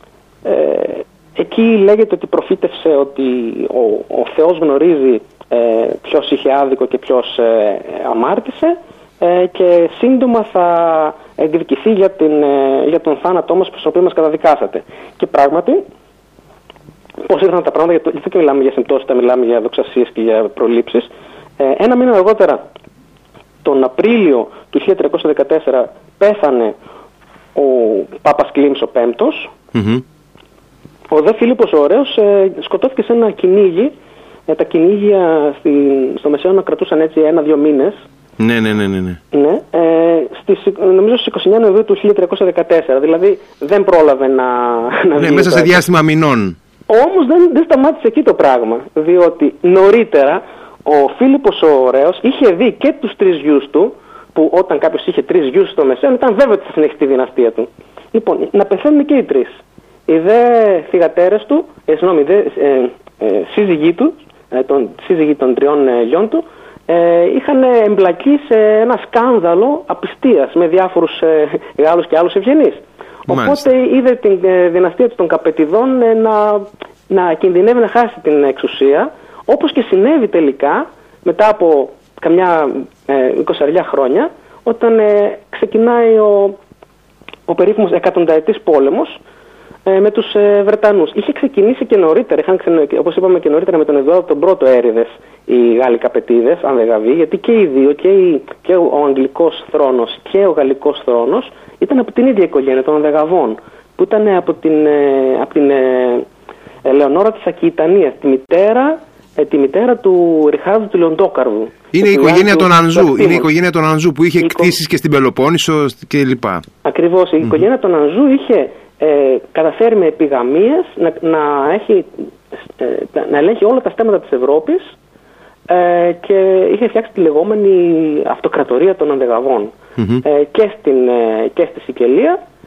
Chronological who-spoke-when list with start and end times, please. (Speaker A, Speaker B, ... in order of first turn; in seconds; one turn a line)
Speaker A: 0.4-15.8
Speaker A: 17.2-22.7
Speaker A: 23.6-26.8
Speaker A: 27.6-29.5
Speaker B: 29.7-30.0
Speaker A: 31.1-33.9
Speaker A: 34.5-38.0
Speaker B: 38.4-39.2
Speaker A: 39.3-45.8
Speaker B: 45.1-46.6
Speaker A: 46.9-86.6
Speaker B: 73.3-73.7
Speaker A: 87.5-89.2
Speaker A: 89.9-106.3
Speaker A: 106.8-113.5
Speaker B: 111.9-116.6
Speaker A: 114.4-114.8
Speaker A: 116.8-122.2
Speaker A: 122.8-124.9
Speaker A: 125.7-132.4
Speaker B: 130.0-130.2